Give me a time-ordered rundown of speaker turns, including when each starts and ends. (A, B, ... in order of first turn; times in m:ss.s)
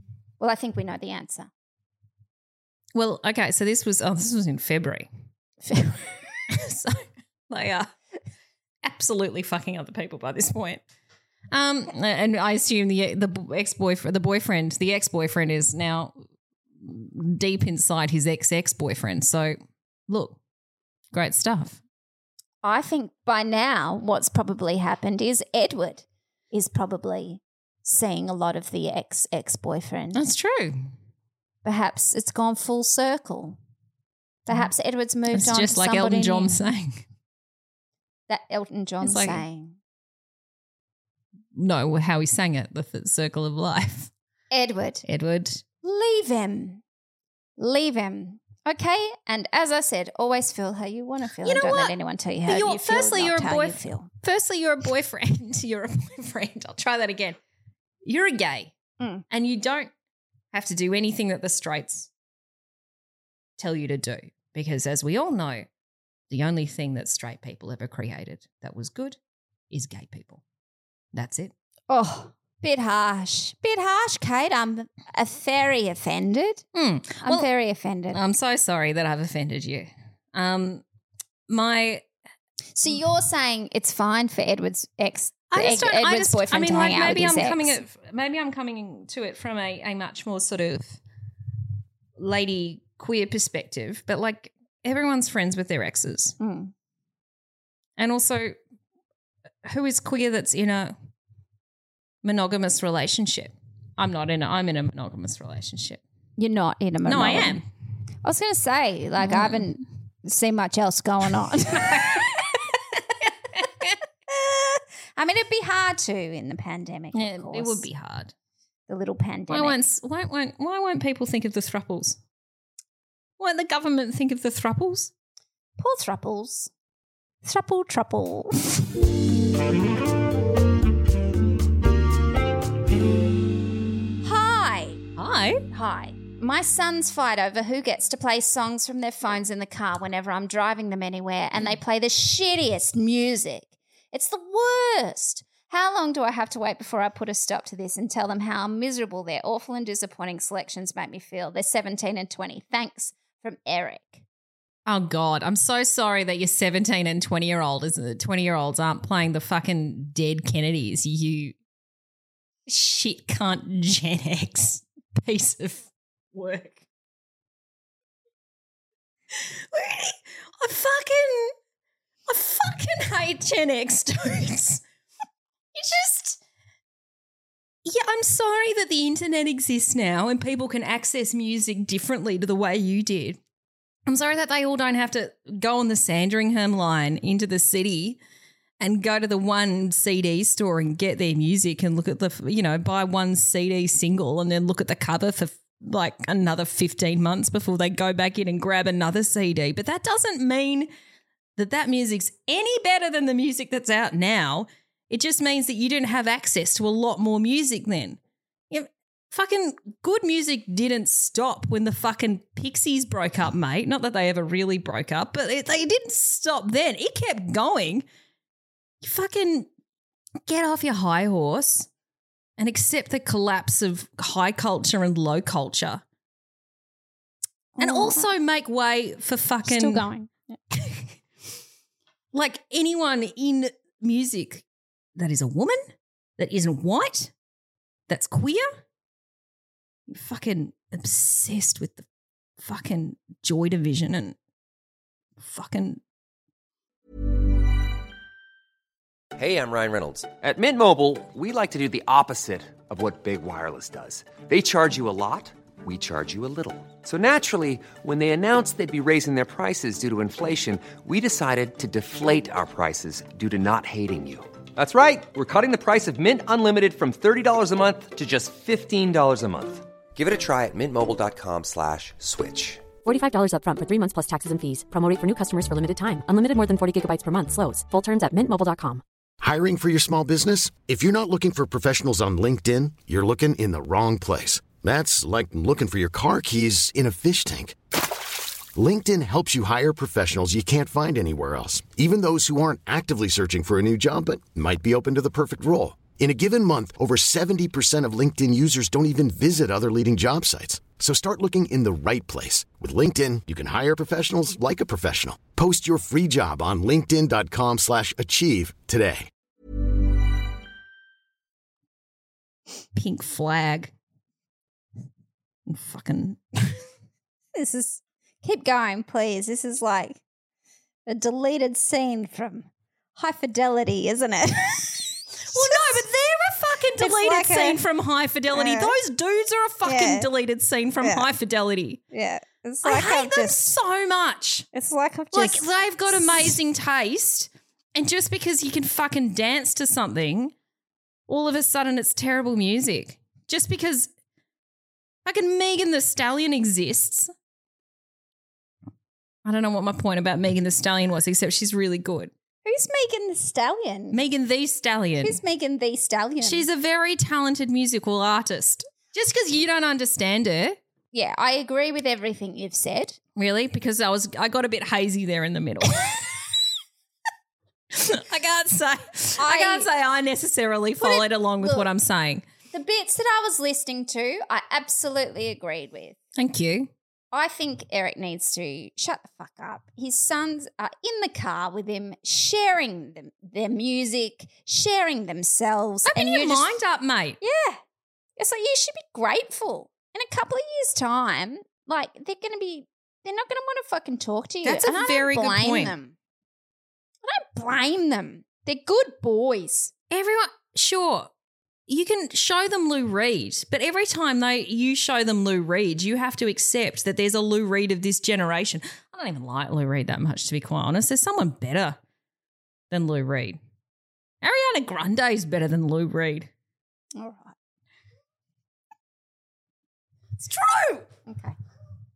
0:00.4-0:01.5 A
0:02.9-0:05.1 B
0:05.7-0:06.0 A
0:06.5-0:07.9 B
0:08.8-0:10.8 B
0:11.5-0:16.1 B
0:16.8-0:19.6 B
0:20.1-0:20.4 B
0:21.1-0:21.8 B
0:22.6-0:30.2 A
0:30.1-0:30.8 B
0:31.6-0:33.6 A
0:34.4-0:36.6 A
0:35.3-0:37.0 B
0:38.3-0:39.8 A
0:39.0-0:39.4 B
0:41.5-0:44.1 B
0:44.5-0:45.0 A
0:45.0-0:45.6 B
0:45.8-0:46.8 A
0:47.6-0:54.1 A
0:51.4-0:57.4 B
0:58.0-0:58.7 B
0:59.3-0:59.9 B
1:00.5-1:02.1 B
1:03.6-1:05.6 B
1:06.3-1:09.2 B
1:09.7-1:10.4 B
1:11.1-1:11.5 B
1:11.9-1:16.6 A
1:16.7-1:17.5 B
1:17.2-1:18.2 A
1:18.1-1:20.8 B
1:21.5-1:22.0 B
1:22.7-1:27.8 A
1:25.5-1:31.0 B
1:32.2-1:36.4 B
1:36.4-1:36.7 A
1:38.0-1:38.5 B
1:39.6-1:40.9 B
1:42.2-1:46.0 B
1:46.4-1:47.6 A
1:47.0-1:47.6 B
1:48.2-1:52.4 A
1:49.2-1:49.6 B
1:51.9-1:52.6 B
1:53.5-1:54.0 B
1:54.3-1:57.8 A
1:57.1-1:58.3 B
1:58.9-1:59.8 A
1:59.5-2:02.2 B
2:03.4-2:05.1 B
2:05.8-2:06.7 A
2:07.4-2:08.8 A
2:14.2-2:15.0 A
2:15.2-2:15.6 B
2:15.7-2:34.2 A
2:34.8-2:41.5 B
2:42.7-2:46.8 B
2:49.3-2:51.5 B
2:52.3-2:54.8 B
2:55.7-2:56.4 B
2:57.8-3:03.4 B
3:04.1-3:08.2 B
3:08.8-3:20.9 B
3:21.6-3:28.2 B
3:28.7-3:38.0 B
3:39.0-3:39.7 B
3:40.4-3:41.9 B
3:42.6-3:46.0 B
3:47.8-3:48.3 A
3:47.8-3:50.0 B
3:49.6-3:50.3 A
3:50.7-3:51.1 B
3:52.3-3:54.6 B
3:55.2-3:55.8 B
3:56.4-3:57.3 B
3:58.1-3:58.7 B
4:00.1-4:02.0 B
4:02.6-4:04.4 B
4:05.4-4:06.0 B
4:09.3-4:32.9 C
4:33.0-4:39.0 D
4:39.4-4:47.8 E
4:48.7-5:09.3 E
5:12.9-5:13.9 B
5:15.7-5:16.8 B
5:17.6-5:20.2 A
5:21.0-5:26.0 A
5:25.5-5:32.0 B
5:27.0-5:27.8 A
5:28.5-5:28.9 A
5:29.8-5:30.3 A
5:32.1-5:33.7 A
5:32.8-5:34.7 B
5:34.7-5:36.5 A
5:35.3-5:40.5 B
5:41.3-5:44.1 B
5:45.2-5:47.3 B
5:49.4-5:52.3 B
5:52.6-5:54.2 A
5:54.1-5:55.4 B
5:55.2-5:56.6 A
5:56.4-6:00.8 B
6:01.1-6:03.2 A
6:03.4-6:06.3 B
6:07.9-6:12.4 B
6:09.4-6:09.9 A
6:11.0-6:11.9 A
6:12.7-6:16.2 A
6:16.4-6:16.9 B
6:17.3-6:26.7 A
6:26.1-6:27.4 B
6:27.4-6:27.8 A
6:28.4-6:36.1 A
6:34.6-6:35.9 B
6:37.2-6:39.9 A
6:40.1-6:41.3 B
6:41.9-6:52.0 B
6:52.9-6:53.6 B
6:54.4-6:56.5 B
6:57.2-6:57.5 A
7:00.4-7:01.1 B
7:01.3-7:01.6 A